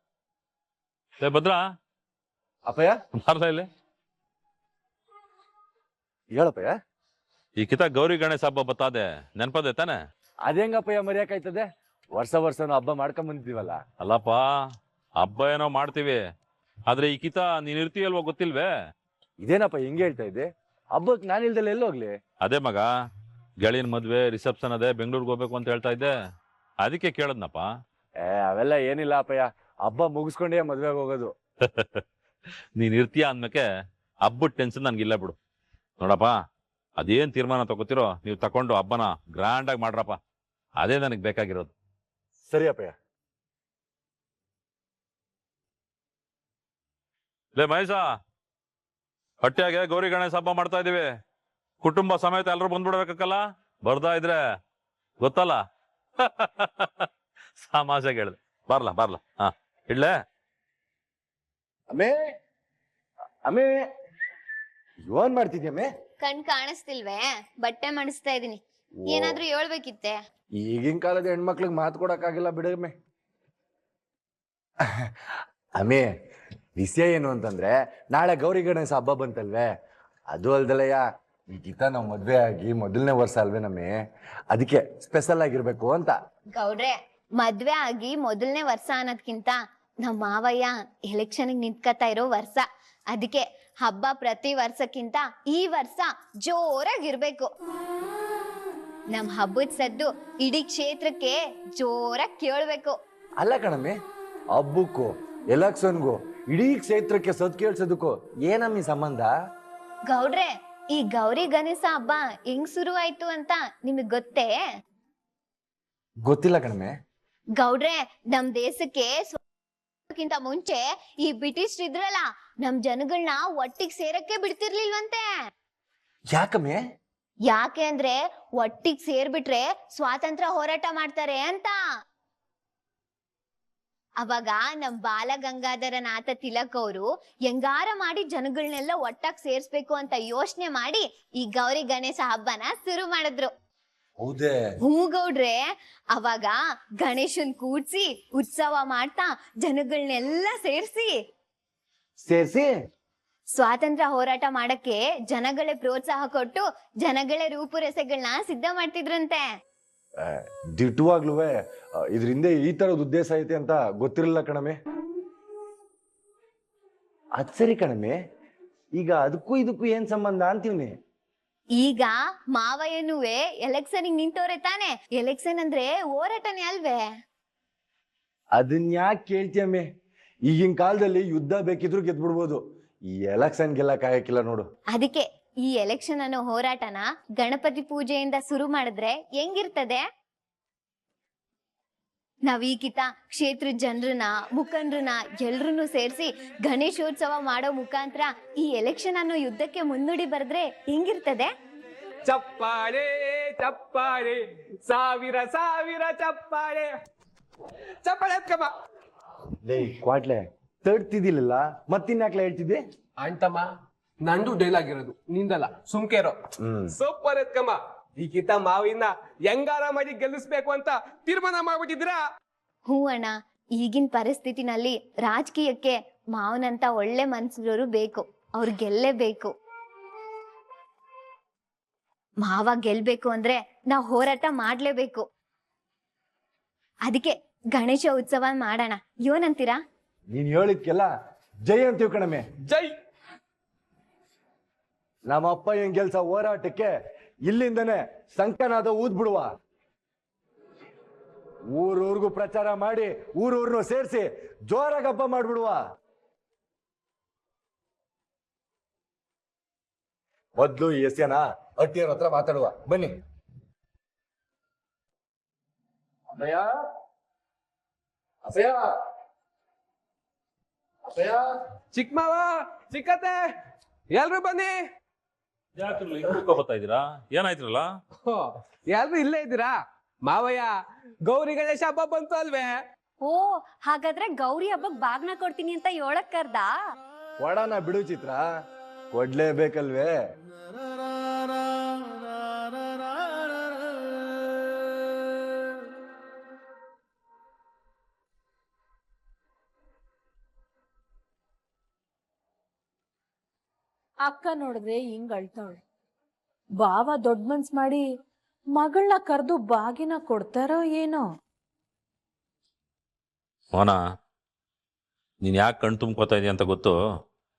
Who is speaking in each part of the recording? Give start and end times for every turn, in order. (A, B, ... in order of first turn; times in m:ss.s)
0:01.2-0:01.6 A
0:02.7-0:03.0 B
0:03.2-0:03.7 A
0:06.4-0:06.7 B
0:07.6-0:10.0 A
0:10.5-0:13.8 B
0:14.0-0:14.4 A
0:15.2-0:16.2 A
0:16.9-0:18.7 A
0:19.4-0:22.2 B
0:22.4-0:22.9 A
0:23.6-0:26.1 A
0:26.8-0:27.7 A
0:28.2-0:31.3 B
0:31.6-0:32.0 A
0:32.8-0:33.6 A
0:34.2-0:35.4 A
0:36.0-0:36.3 A
0:37.0-0:40.2 A
0:40.8-0:41.7 A
0:42.5-0:42.9 B
0:47.6-0:48.0 A
0:49.4-0:51.1 A
0:51.8-0:54.4 A
0:55.2-0:55.6 A
0:56.2-1:00.1 A
1:01.9-1:02.2 B
1:03.5-1:03.9 B
1:05.1-1:05.9 B
1:06.2-1:10.2 C
1:09.0-1:09.4 B
1:10.6-1:12.9 B
1:15.8-1:16.1 B
1:16.8-1:19.7 B
1:20.3-1:24.0 B
1:24.5-1:26.1 B
1:26.6-1:37.5 C
1:39.1-1:43.0 C
1:43.4-1:44.0 B
1:44.5-1:49.3 B
1:50.1-1:54.5 C
1:56.2-1:56.9 B
1:57.6-1:59.4 C
2:00.1-2:05.2 C
2:06.3-2:06.8 B
2:07.5-2:11.8 C
2:14.2-2:23.5 C
2:24.2-2:24.6 B
2:24.9-2:31.1 C
2:32.2-2:32.7 B
2:33.5-2:39.4 C
2:40.2-2:41.6 B
2:42.1-2:44.8 B
2:47.4-2:48.2 B
2:49.0-2:50.9 B
2:51.8-2:57.0 C
2:58.6-2:59.8 B
3:00.5-3:02.6 B
3:03.1-3:04.7 B
3:04.9-3:10.0 C
3:12.5-3:21.5 C
3:22.3-3:26.9 D
3:28.0-3:28.7 D
3:29.6-3:32.8 B
3:33.2-3:33.7 D
3:34.2-3:36.4 D
3:36.6-3:36.9 B
3:37.0-3:42.2 D
3:42.9-3:49.5 C
3:52.4-3:55.2 C
3:57.1-3:59.8 C
4:00.3-4:01.1 B
4:01.7-4:02.4 B
4:05.3-4:06.9 B
4:07.5-4:09.5 B
4:11.7-4:15.8 B
4:20.6-4:23.1 B
4:26.3-4:26.7 B
4:28.5-4:28.9 B
4:31.1-4:31.4 B
4:31.9-4:33.4 D
4:34.1-4:34.8 D
4:35.8-4:37.9 A
4:38.3-4:40.7 D
4:41.3-4:42.7 D
4:43.3-4:46.7 E
4:47.4-4:48.4 B
4:49.1-4:50.2 B
5:04.3-5:05.8 F
5:06.8-5:08.0 F
5:08.8-5:11.3 F
5:15.4-5:17.0 A